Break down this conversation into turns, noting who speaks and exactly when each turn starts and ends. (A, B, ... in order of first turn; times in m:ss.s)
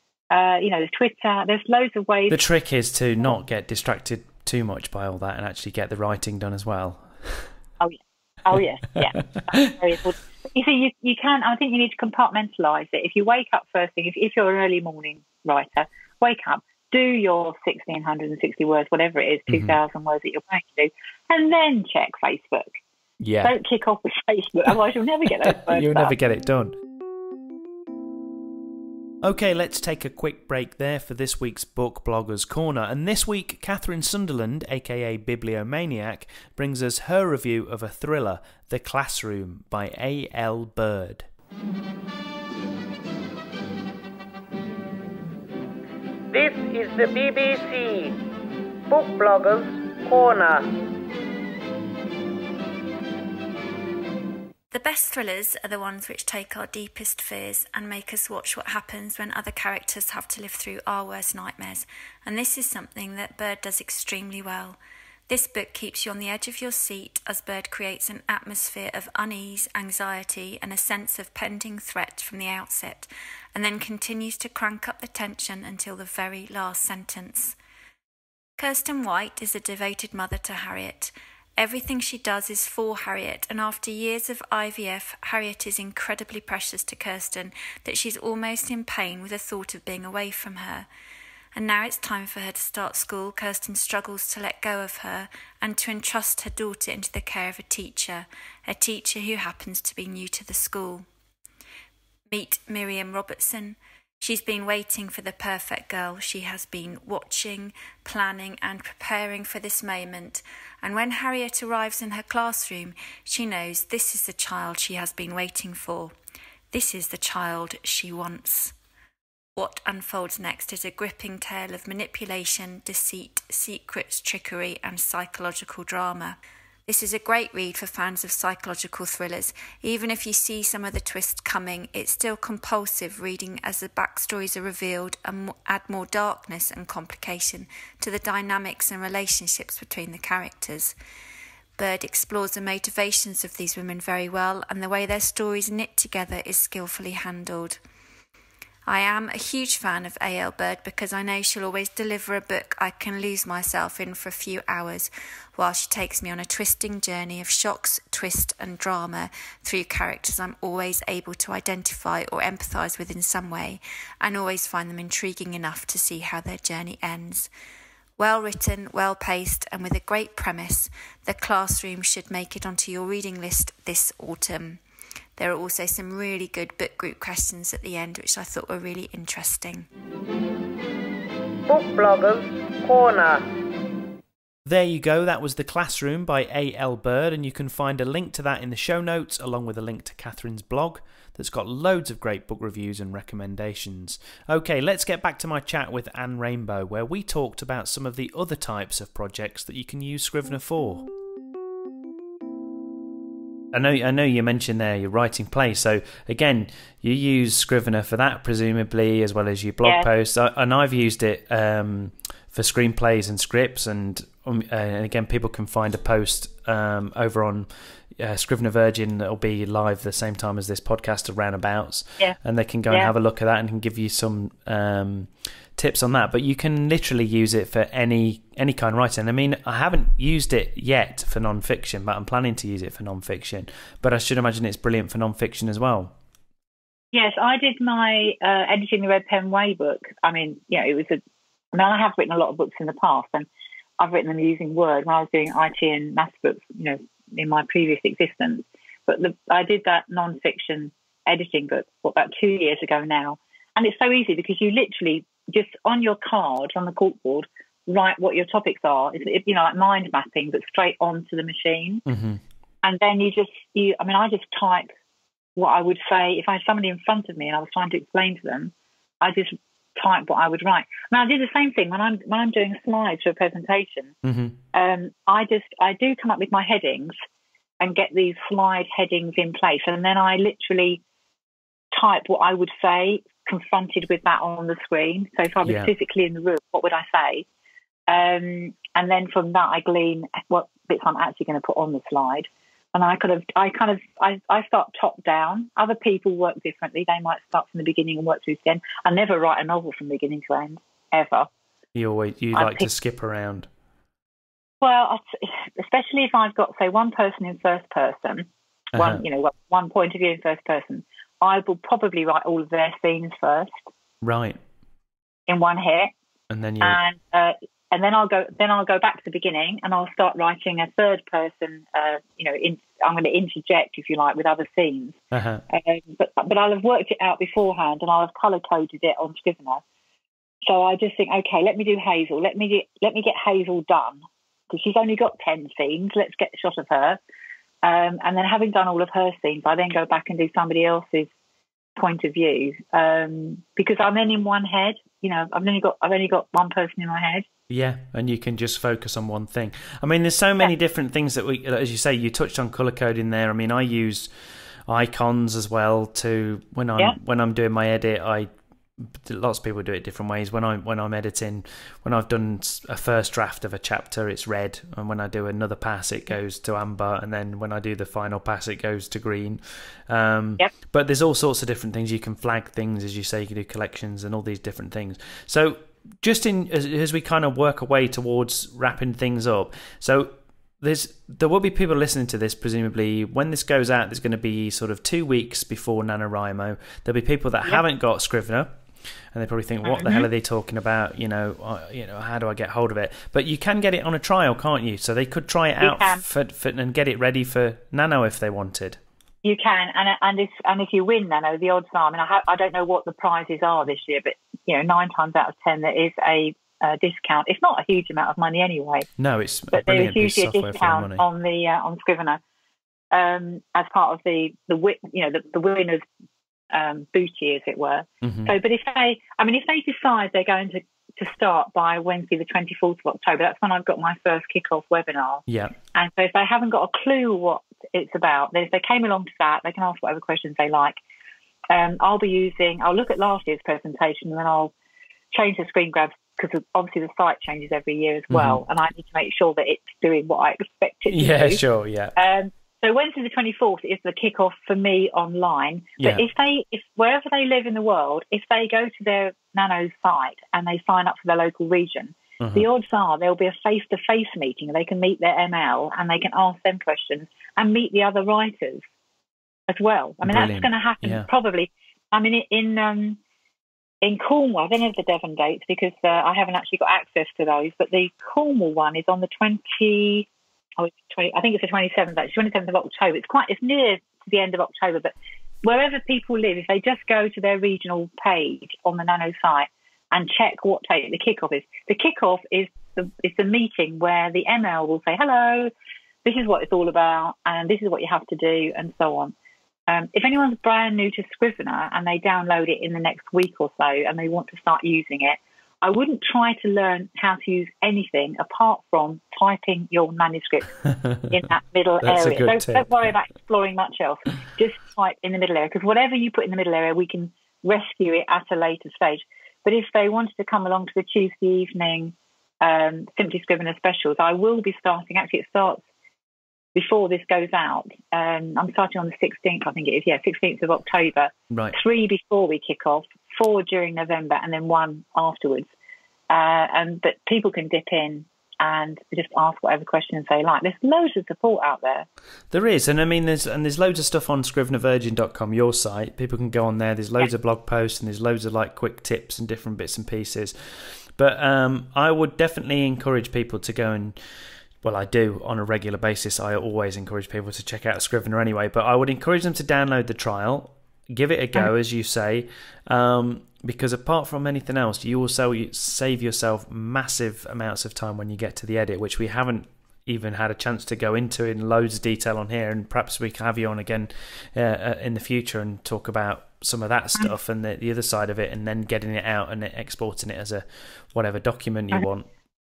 0:00.3-0:02.4 A
0:02.3-0:07.5 B
0:07.8-0:22.8 A
0:09.2-0:09.7 B
0:19.5-0:19.8 B
0:23.2-0:23.5 B
0:23.4-0:26.1 A
0:25.4-0:26.8 B
0:29.2-0:41.2 B
0:46.3-0:48.2 C
0:48.9-0:50.7 C
0:54.7-1:04.8 D
1:05.3-1:17.6 D
1:18.6-1:30.9 D
1:31.5-1:41.0 D
1:42.3-1:56.1 D
1:56.7-1:58.7 D
1:59.6-2:20.9 D
2:21.8-2:27.8 D
2:28.9-2:47.5 D
2:48.2-2:54.8 D
2:55.4-2:59.9 D
3:01.7-3:03.4 C
3:04.6-3:21.0 B
3:23.7-3:56.1 B
3:29.8-3:30.1 A
3:57.1-4:01.2 A
4:01.7-4:03.5 A
4:04.0-4:22.0 A
4:22.0-4:22.4 B
4:22.8-4:24.9 A
4:25.6-4:34.1 A
4:34.2-4:34.6 B
4:34.7-4:37.2 A
4:37.8-4:41.0 A
4:41.9-4:47.4 A
4:45.6-4:45.9 B
4:48.1-5:01.5 A
5:01.9-5:03.7 B
5:02.5-5:02.9 A
5:04.8-5:13.9 A
5:08.9-5:09.2 B
5:14.2-5:14.6 B
5:15.5-5:16.1 A
5:16.5-5:17.0 B
5:16.8-5:25.2 A
5:25.3-5:25.6 B
5:25.7-5:29.8 A
5:30.6-5:37.2 A
5:37.8-5:41.3 A
5:42.0-5:47.4 A
5:47.7-5:54.3 B
5:54.9-6:28.8 B
6:29.3-6:39.0 B
6:29.8-6:30.3 A
6:35.8-6:36.2 A
6:39.4-6:49.1 A
6:49.2-6:51.2 B
6:49.7-6:52.4 A
6:53.1-6:56.0 A
6:56.7-7:11.0 A
6:58.2-6:58.5 B
7:05.5-7:05.8 B
7:11.7-7:14.7 A
7:15.3-7:21.6 A
7:18.3-7:18.6 B
7:21.1-7:22.2 B
7:22.2-7:38.8 A
7:32.4-7:32.7 B
7:39.7-7:43.2 A
7:40.2-7:41.3 B
7:44.0-8:05.7 A
8:06.2-8:09.3 A
8:09.9-8:35.8 A
8:20.8-8:21.3 B
8:22.0-8:23.0 B
8:36.7-8:45.7 A
8:41.5-8:41.8 B
8:46.3-8:52.1 A
8:52.5-9:04.1 B
9:04.8-9:32.3 B